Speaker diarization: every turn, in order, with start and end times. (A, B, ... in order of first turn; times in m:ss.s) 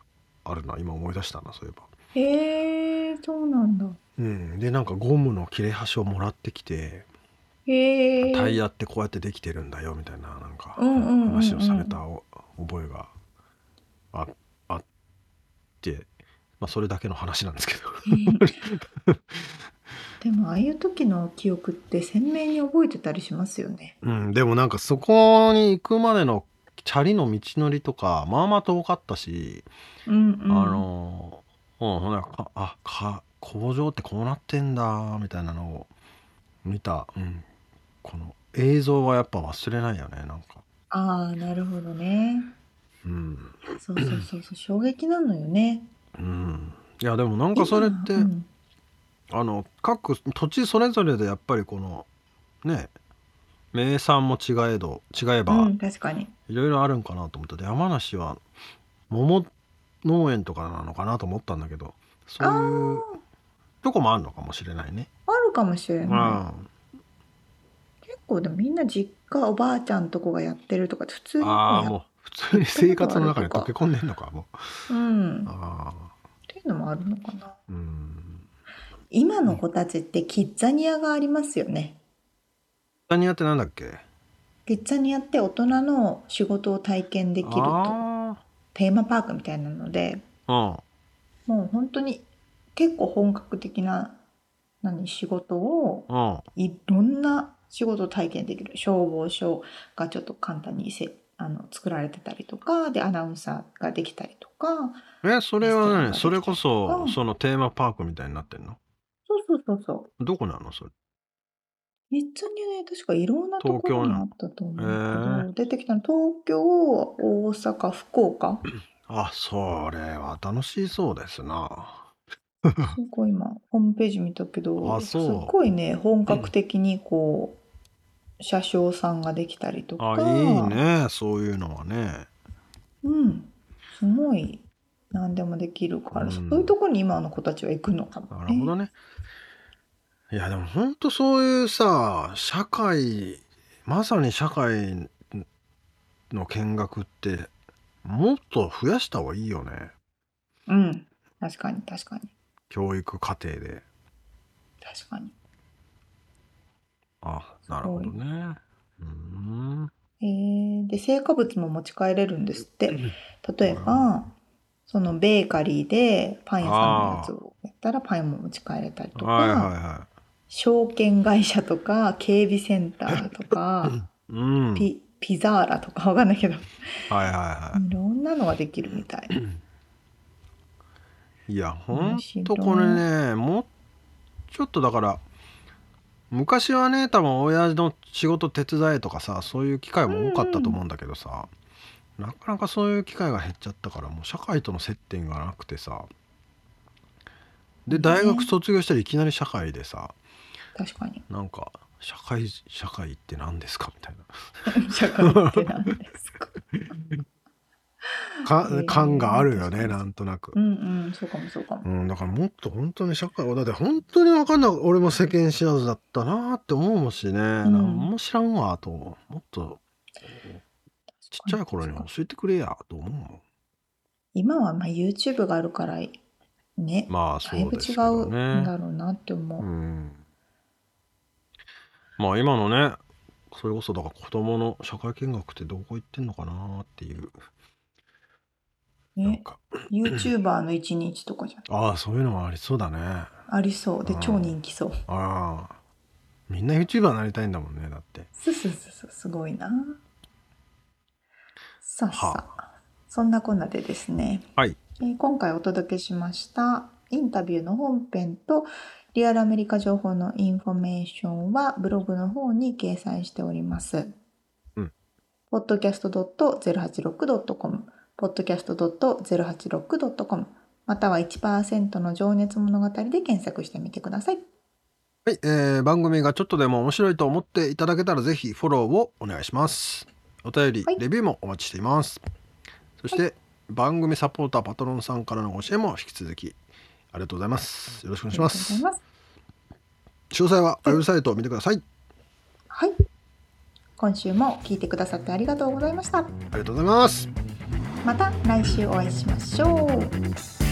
0:00.4-0:01.9 A
0:02.2-0:04.0 B
0:04.2-0:07.1 A
0:07.7-0:08.6 B
0:08.2-0:13.1 A
0:10.8-0:12.0 B
0:14.1-0:14.8 A
0:15.8-0:16.1 A
0:16.6-0:19.5 A
0:18.1-0:18.5 B
0:20.2-0:24.0 B
0:24.0-0:29.7 A
0:30.1-0:30.8 B
0:30.5-0:35.9 A
0:36.6-0:37.5 A
0:38.0-0:40.6 A
0:40.9-0:42.5 B
0:43.0-0:44.2 A
0:43.8-0:45.9 B
0:46.2-0:48.3 A
0:47.6-0:48.5 B
0:49.3-0:52.1 A
0:52.6-0:52.9 A
0:53.7-0:55.7 A
0:55.5-0:56.4 B
0:56.5-0:58.4 A
0:59.1-0:59.5 A
1:00.0-1:03.1 A
1:02.4-1:03.2 B
1:03.8-1:05.1 A
1:05.3-1:06.4 B
1:06.0-1:06.7 A
1:08.0-1:12.0 B
1:11.4-1:14.6 A
1:12.5-1:13.7 B
1:14.9-1:15.5 B
1:15.5-1:16.1 A
1:16.5-1:17.6 B
1:17.7-1:18.5 A
1:19.1-1:22.0 B
1:23.1-1:24.0 A
1:24.7-1:28.0 B
1:27.4-1:28.4 A
1:28.7-1:30.3 B
1:30.5-1:30.8 A
1:31.5-1:34.2 B
1:34.8-1:45.0 B
1:36.1-1:36.5 A
1:45.2-1:48.8 A
1:45.6-1:47.2 B
1:49.3-1:50.1 B
1:50.2-1:50.9 A
1:52.1-1:58.7 B
1:53.6-1:54.2 A
1:54.8-1:55.5 A
1:59.1-2:02.1 A
2:02.7-2:03.0 A
2:02.8-2:07.6 B
2:04.8-2:05.6 A
2:08.4-2:10.8 B
2:10.0-2:12.3 A
2:13.0-2:18.7 B
2:16.1-2:16.7 A
2:18.3-2:18.9 A
2:20.3-2:25.4 A
2:26.3-2:27.5 A
2:28.0-2:29.9 A
2:30.7-2:32.3 B
2:32.7-2:33.8 A
2:34.8-2:35.4 B
2:37.2-2:39.9 A
2:37.8-2:38.1 B
2:40.2-2:44.4 B
2:43.6-2:44.1 A
2:44.9-2:49.7 B
2:46.6-2:47.3 A
2:49.2-2:50.1 A
2:50.5-2:54.1 B
2:54.1-2:54.9 A
2:54.8-2:57.1 B
2:57.1-2:57.8 A
2:57.7-2:59.4 B
3:01.5-3:03.7 A
3:01.9-3:03.0 B
3:04.5-3:05.2 A
3:06.3-3:11.5 A
3:10.1-3:10.8 B
3:12.2-3:16.1 A
3:17.9-3:20.2 A
3:17.9-3:18.5 B
3:20.8-3:21.2 B
3:21.3-3:24.7 A
3:24.7-3:26.5 B
3:25.2-3:25.7 A
3:26.7-3:27.2 A
3:28.2-3:30.0 B
3:28.4-3:30.6 A
3:30.6-3:31.9 B
3:31.8-3:39.8 A
3:37.6-3:38.1 B
3:41.2-3:42.1 B
3:41.3-3:43.4 A
3:44.4-3:46.2 B
3:46.8-3:49.7 B
3:47.1-3:48.7 A
3:49.6-3:50.2 A
3:52.2-3:53.0 A
3:53.5-3:57.3 A
3:59.2-4:01.7 B
3:59.2-4:00.3 A
4:01.7-4:03.3 A
4:03.5-4:05.0 B
4:04.0-4:04.6 A
4:05.1-4:05.8 A
4:06.5-4:08.3 A
4:08.4-4:10.0 B
4:11.8-4:14.5 B
4:12.1-4:12.4 A
4:15.0-4:24.2 B
4:25.5-4:34.4 B
4:35.3-4:42.2 A
4:43.0-4:46.6 A
4:47.1-4:48.8 A
4:48.3-4:49.0 B
4:50.3-4:51.8 A
4:54.0-4:56.4 B
4:56.5-4:57.3 A
4:58.0-5:00.2 B